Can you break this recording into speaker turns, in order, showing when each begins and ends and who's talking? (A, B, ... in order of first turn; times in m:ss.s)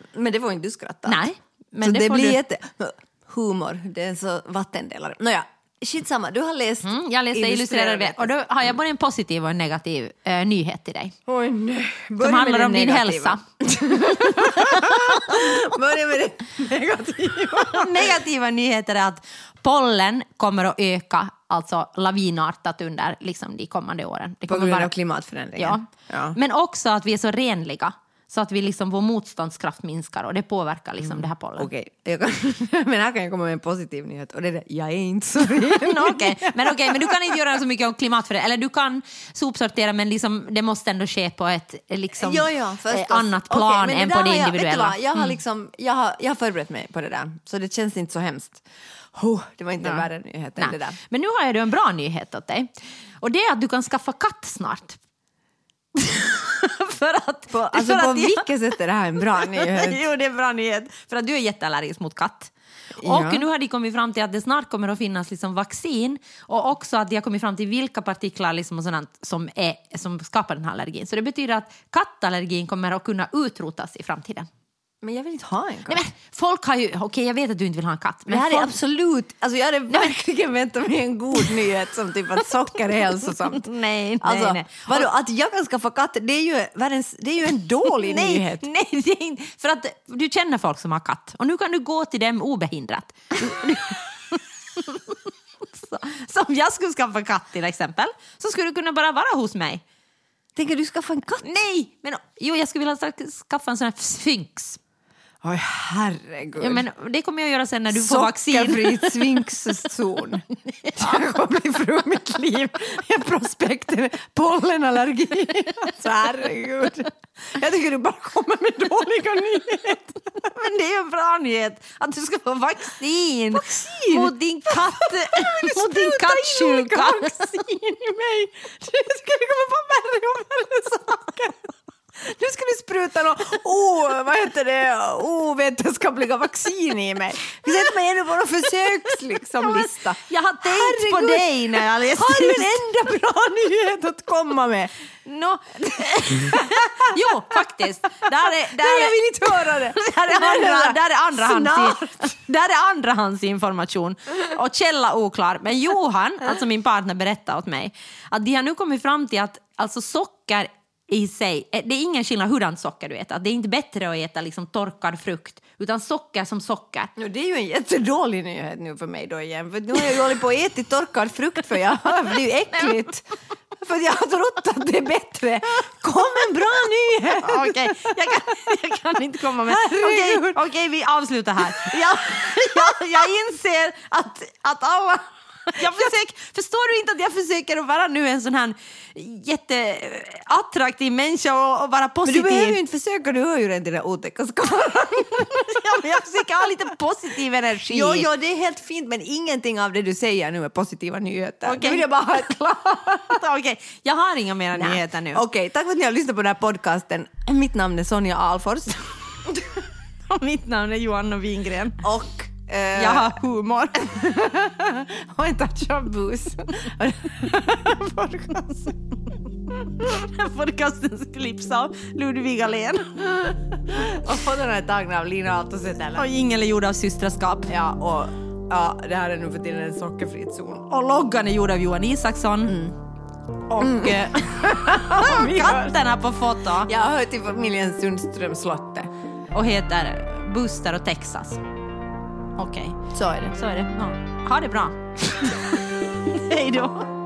0:00.1-0:01.3 A
0:01.1-0:02.4 B
0:01.8-0:08.3 A
0:06.8-0:11.2 B
0:11.3-0:18.2 A
0:12.2-0:13.4 B
0:14.3-0:15.3 B
0:17.7-0:24.9 B
0:24.5-0:26.4 A
0:25.6-0:31.7 B
0:31.0-0:37.4 A
0:35.5-0:45.3 B
0:42.2-0:48.6 A
0:49.1-0:51.0 A
0:50.6-0:52.7 B
0:53.2-0:55.0 B
0:56.0-0:58.5 B
0:57.5-1:00.0 A
0:59.3-1:14.5 B
1:03.0-1:03.5 A
1:15.0-1:16.0 A
1:15.9-1:18.8 B
1:18.3-1:23.7 A
1:23.5-1:25.1 B
1:24.2-1:28.6 A
1:27.9-1:35.2 B
1:35.7-1:39.8 B
1:40.6-1:41.5 A
1:41.4-1:44.8 B
1:45.4-1:46.8 A
1:46.6-1:49.4 B
1:47.9-2:00.5 A
1:50.7-1:51.2 B
2:00.4-2:07.5 B
2:03.5-2:24.9 A
2:20.3-2:22.8 B
2:25.3-2:47.1 B
2:26.1-2:27.6 A
2:28.3-2:32.3 A
2:47.2-2:53.2 A
2:53.8-2:58.2 A
2:57.4-3:05.1 B
2:59.7-3:00.6 A
3:01.7-3:03.4 A
3:04.6-3:05.2 A
3:05.7-3:12.8 B
3:12.2-3:15.8 A
3:15.6-3:18.3 B
3:17.9-3:23.4 A
3:21.6-3:22.1 B
3:23.3-3:25.4 B
3:24.8-3:29.8 A
3:30.3-3:32.1 B
3:32.0-3:33.4 A
3:33.0-3:34.1 B
3:33.9-3:39.1 A
3:39.9-3:43.3 B
3:43.3-3:46.3 A
3:46.1-3:47.7 B
3:47.7-3:50.9 A
3:50.9-3:52.9 B
3:53.7-3:56.9 B
3:53.8-3:56.0 A
3:56.9-3:59.1 A
3:59.5-4:01.6 B
4:02.6-4:07.1 B
4:03.1-4:03.5 A